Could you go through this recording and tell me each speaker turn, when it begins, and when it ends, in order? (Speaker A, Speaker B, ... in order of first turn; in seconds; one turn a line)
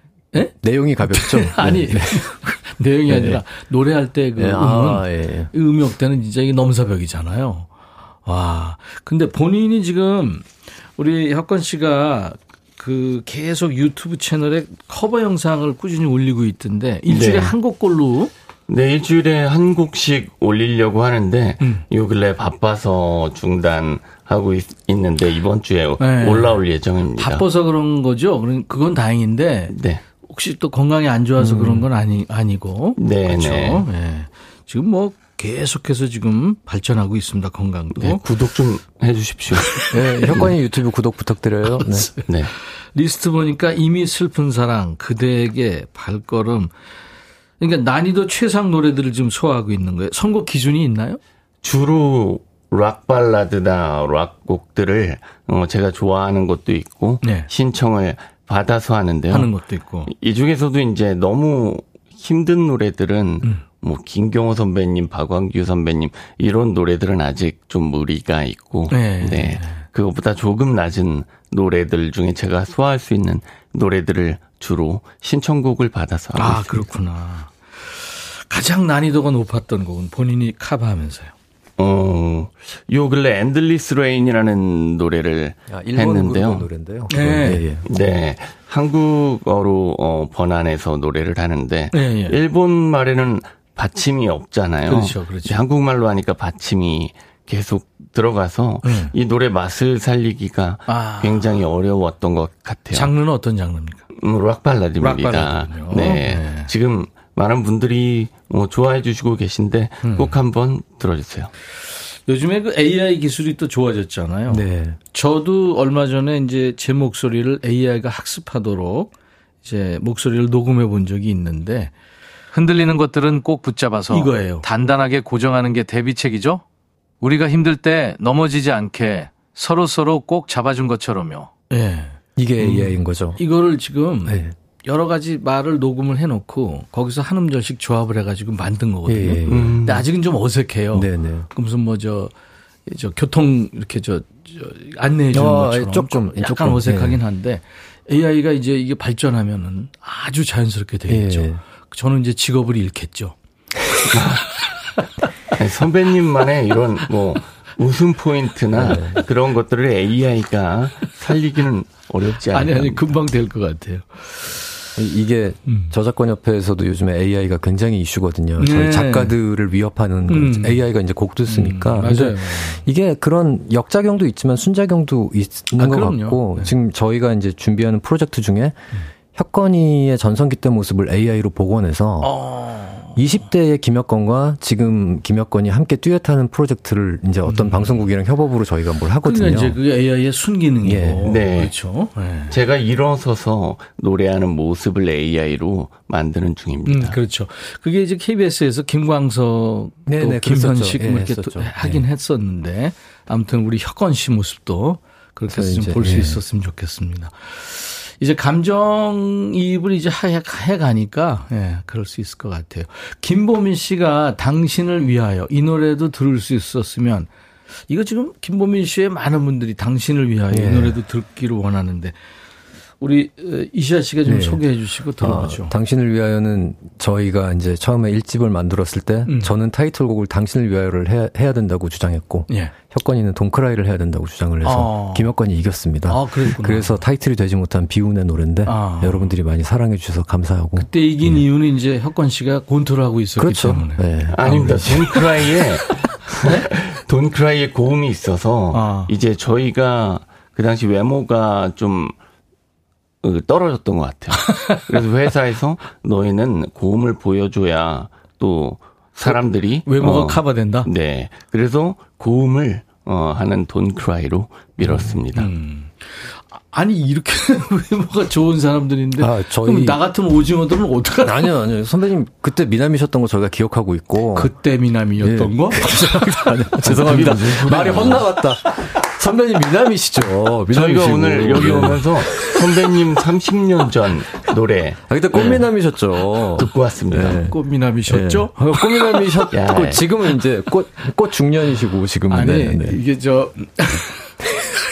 Speaker A: 0.3-7.7
Speaker B: 0.5-2.3
Speaker B: 3.1-3.4
Speaker B: 4.4-5.5
Speaker A: 8.2-18.3
Speaker C: 17.1-17.6
Speaker C: 18.7-27.5
Speaker A: 21.6-21.9
Speaker A: 26.0-26.6
Speaker A: 27.2-38.2
Speaker C: 29.7-30.0
Speaker B: 31.4-31.9
Speaker C: 33.0-33.9
Speaker C: 38.0-40.5
Speaker A: 39.6-40.4
Speaker B: 39.9-42.2
Speaker A: 41.8-46.7
Speaker C: 42.3-42.5
Speaker A: 47.6-51.2
Speaker C: 51.6-59.5
Speaker A: 57.2-57.5
Speaker A: 59.3-60.1
Speaker C: 60.1-76.9
Speaker A: 68.9-69.8
Speaker A: 76.3-81.3
Speaker C: 81.8-86.7
Speaker B: 85.7-87.9
Speaker A: 87.1-87.7
Speaker C: 87.9-103.1
Speaker A: 91.9-92.4
Speaker A: 94.9-95.6
Speaker A: 98.8-99.1
Speaker A: 100.9-101.5
Speaker A: 102.9-104.1
Speaker C: 104.1-111.5
Speaker A: 105.0-106.7
Speaker A: 110.0-110.3
Speaker A: 112.3-119.1
Speaker B: 114.5-115.0
Speaker A: 119.6-121.9
Speaker A: 122.5-126.6
Speaker A: 127.2-142.3
Speaker B: 132.4-133.4
Speaker B: 134.2-134.6
Speaker B: 139.1-139.8
Speaker C: 139.5-140.1
Speaker B: 140.9-141.5
Speaker A: 142.9-153.4
Speaker B: 145.3-147.2
Speaker B: 151.1-151.6
Speaker A: 154.0-154.6
Speaker C: 154.1-154.4
Speaker C: 155.6-163.1
Speaker B: 158.8-159.2
Speaker A: 162.5-164.9
Speaker B: 165.0-178.8
Speaker A: 165.7-165.9
Speaker A: 168.6-169.4
Speaker A: 170.3-170.8
Speaker A: 171.5-172.8
Speaker A: 175.8-176.7
Speaker B: 179.3-182.3
Speaker A: 182.2-183.4
Speaker B: 183.2-189.8
Speaker A: 187.4-188.1
Speaker A: 189.2-192.6
Speaker B: 190.8-191.3
Speaker C: 191.2-191.7
Speaker C: 192.5-197.2
Speaker A: 196.9-217.3
Speaker B: 200.1-202.0
Speaker B: 205.5-206.4
Speaker A: 217.9-222.2
Speaker B: 220.5-221.0
Speaker A: 223.0-225.7
Speaker B: 224.2-224.6
Speaker B: 225.2-241.4
Speaker A: 229.3-229.5
Speaker A: 232.5-232.7
Speaker A: 234.6-235.3
Speaker A: 236.1-237.0
Speaker A: 238.7-239.4
Speaker A: 240.8-245.2
Speaker B: 243.4-245.2
Speaker C: 244.3-252.2
Speaker A: 248.7-249.1
Speaker C: 253.2-265.5
Speaker A: 254.4-255.0
Speaker A: 259.2-260.9
Speaker A: 264.8-271.5
Speaker B: 269.2-270.0
Speaker B: 271.2-274.5
Speaker A: 274.3-278.4
Speaker B: 275.2-282.9
Speaker C: 276.8-278.3
Speaker C: 280.7-285.7
Speaker B: 285.1-287.6
Speaker C: 286.6-287.4
Speaker A: 287.3-289.5
Speaker B: 288.1-293.0
Speaker C: 289.5-290.1
Speaker A: 292.3-294.4